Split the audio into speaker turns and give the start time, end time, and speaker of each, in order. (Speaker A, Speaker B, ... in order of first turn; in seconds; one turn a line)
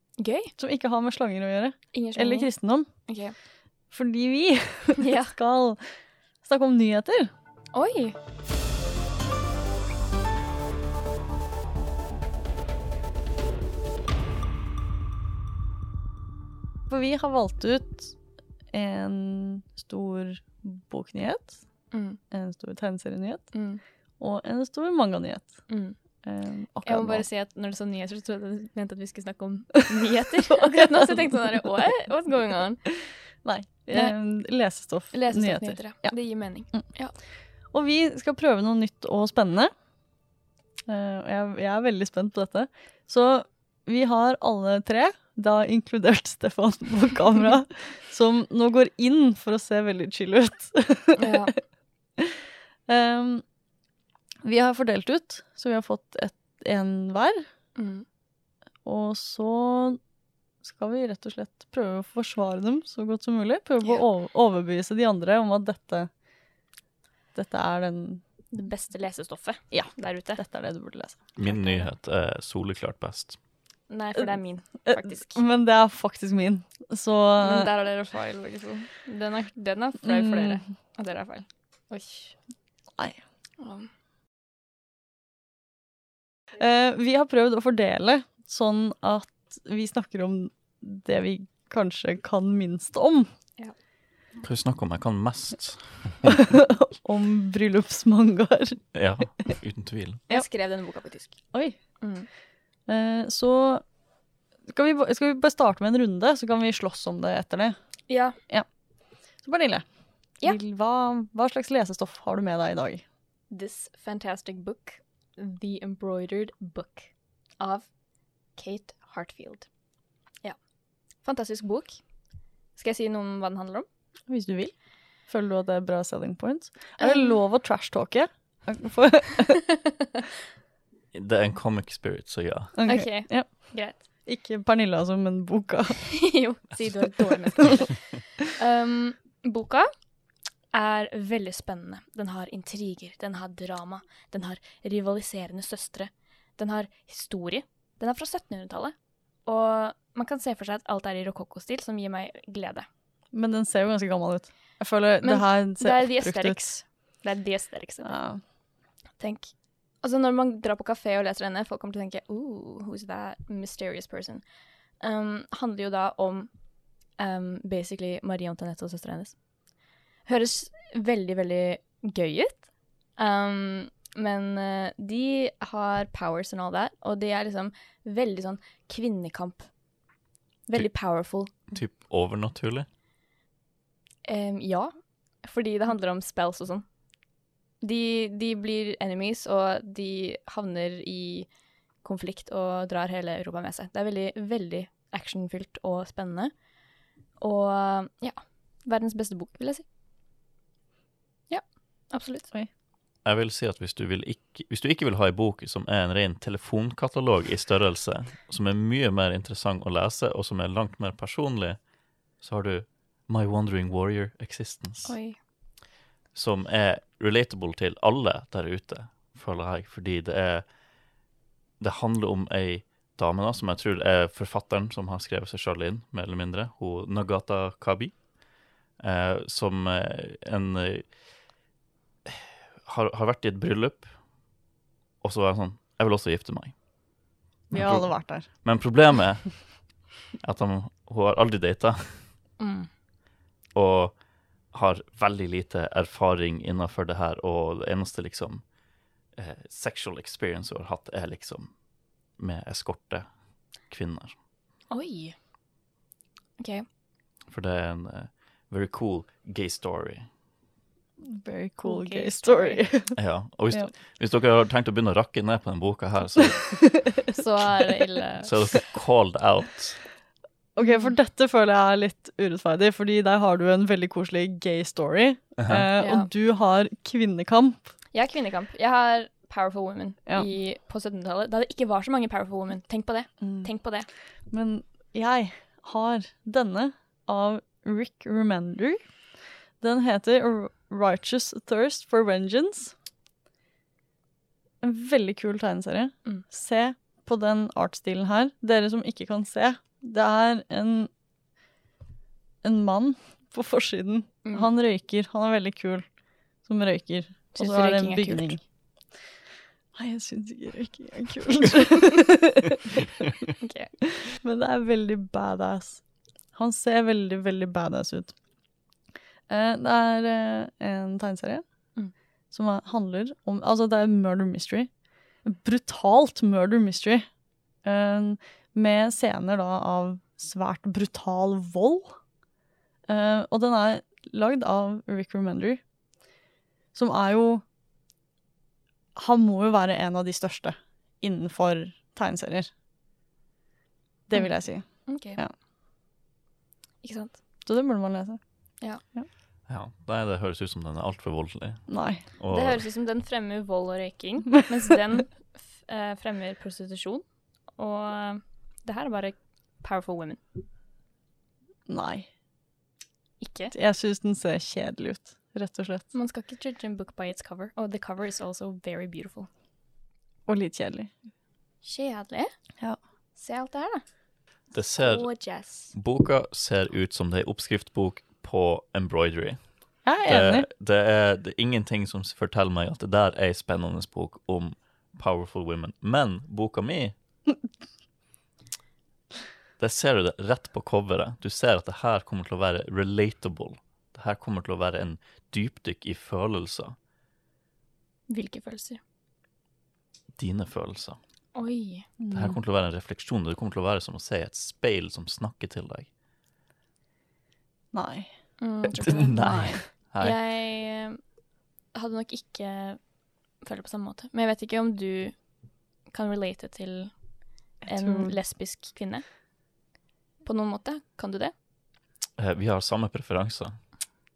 Speaker A: 0.2-0.5
Speaker B: 0.6-2.9
Speaker A: 1.9-3.4
Speaker B: 3.9-5.8
Speaker A: 5.0-5.3
Speaker B: 6.4-7.3
Speaker A: 7.7-8.2
Speaker B: 16.9-18.1
Speaker B: 18.7-21.6
Speaker A: 21.9-22.2
Speaker B: 22.3-23.5
Speaker A: 23.5-23.8
Speaker B: 24.2-25.6
Speaker A: 25.7-26.0
Speaker B: 26.2-27.2
Speaker A: 26.8-32.8
Speaker B: 30.5-31.3
Speaker B: 33.4-36.1
Speaker A: 35.1-37.1
Speaker B: 37.7-39.7
Speaker B: 40.9-51.6
Speaker A: 51.1-51.5
Speaker B: 52.2-53.4
Speaker B: 54.4-57.5
Speaker A: 57.8-58.0
Speaker B: 58.8-60.0
Speaker B: 60.6-66.1
Speaker B: 67.3-68.2
Speaker A: 68.5-70.4
Speaker B: 69.7-71.2
Speaker C: 71.3-73.4
Speaker A: 71.4-71.9
Speaker A: 73.9-75.4
Speaker B: 74.8-77.7
Speaker A: 77.4-82.3
Speaker B: 80.0-80.6
Speaker A: 83.6-83.9
Speaker B: 86.6-93.3
Speaker C: 94.4-96.4
Speaker B: 96.2-98.8
Speaker C: 98.9-100.2
Speaker A: 100.3-101.4
Speaker A: 102.0-102.3
Speaker B: 102.9-103.8
Speaker B: 104.7-107.8
Speaker A: 108.1-108.4
Speaker B: 109.4-109.8
Speaker B: 110.4-113.0
Speaker A: 113.5-117.9
Speaker A: 118.5-119.7
Speaker A: 121.2-122.0
Speaker A: 122.7-123.9
Speaker B: 124.3-124.7
Speaker B: 125.3-129.6
Speaker A: 127.0-127.4
Speaker C: 131.1-132.8
Speaker B: 132.7-136.2
Speaker A: 132.8-134.0
Speaker A: 136.1-139.9
Speaker A: 140.7-148.9
Speaker A: 149.4-152.9
Speaker B: 153.3-156.8
Speaker A: 155.2-158.2
Speaker B: 158.0-158.4
Speaker A: 159.2-164.4
Speaker A: 165.0-166.5
Speaker A: 167.2-169.3
Speaker A: 170.2-179.7
Speaker A: 180.7-181.5
Speaker C: 181.7-182.9
Speaker A: 184.2-186.8
Speaker A: 187.8-191.5
Speaker A: 192.0-196.5
Speaker A: 197.4-199.8
Speaker A: 201.5-202.5
Speaker C: 203.2-211.8
Speaker C: 212.4-215.1
Speaker A: 215.0-215.4
Speaker C: 216.3-220.7
Speaker C: 221.8-228.2
Speaker C: 229.0-231.2
Speaker C: 232.2-234.1
Speaker C: 235.2-236.8
Speaker B: 237.7-238.5
Speaker C: 237.7-242.3
Speaker A: 242.6-242.9
Speaker C: 243.7-244.2
Speaker C: 244.7-248.6
Speaker C: 249.3-251.7
Speaker C: 252.4-253.3
Speaker C: 253.8-254.4
Speaker A: 254.9-255.3
Speaker A: 256.6-256.9
Speaker C: 257.5-260.3
Speaker B: 261.2-263.2
Speaker A: 261.8-262.8
Speaker C: 263.1-267.0
Speaker B: 266.8-267.3
Speaker A: 267.3-268.5
Speaker C: 268.4-270.0
Speaker B: 270.8-277.8
Speaker A: 270.8-271.1
Speaker C: 275.6-275.8
Speaker A: 276.0-276.3
Speaker A: 278.1-284.1
Speaker B: 283.4-283.7
Speaker B: 284.5-289.0
Speaker B: 289.8-292.9
Speaker B: 294.8-301.1
Speaker B: 302.6-306.1
Speaker B: 306.6-308.6
Speaker A: 307.5-308.5
Speaker B: 309.9-313.2
Speaker A: 313.6-313.9
Speaker B: 314.3-316.0
Speaker B: 316.5-318.3
Speaker B: 319.5-321.6
Speaker B: 322.5-324.9
Speaker B: 325.4-327.2
Speaker B: 327.8-332.2
Speaker B: 333.1-335.8
Speaker B: 336.9-337.6
Speaker B: 339.1-342.7
Speaker B: 344.3-345.5
Speaker A: 344.3-345.4
Speaker A: 347.0-347.4
Speaker B: 347.6-348.4
Speaker C: 349.7-352.8
Speaker B: 351.9-352.2
Speaker A: 352.5-357.2
Speaker A: 357.8-360.4
Speaker B: 361.9-362.3
Speaker A: 363.4-363.7
Speaker B: 363.7-366.0
Speaker A: 366.1-369.5
Speaker B: 370.5-371.1
Speaker A: 371.8-372.5
Speaker A: 373.4-374.0
Speaker C: 374.7-379.7
Speaker A: 375.0-375.9
Speaker B: 380.0-380.7
Speaker C: 380.2-387.1
Speaker C: 389.8-396.9
Speaker A: 398.3-399.0
Speaker C: 400.4-401.2
Speaker A: 401.5-402.1
Speaker B: 402.2-402.6
Speaker C: 402.3-406.1
Speaker B: 407.9-408.3
Speaker A: 408.6-411.2
Speaker C: 409.0-410.4
Speaker B: 409.4-409.8
Speaker A: 411.9-413.0
Speaker A: 413.6-415.4
Speaker A: 416.1-417.1
Speaker A: 417.8-419.2
Speaker B: 417.8-418.4
Speaker A: 420.4-421.5
Speaker C: 422.4-423.8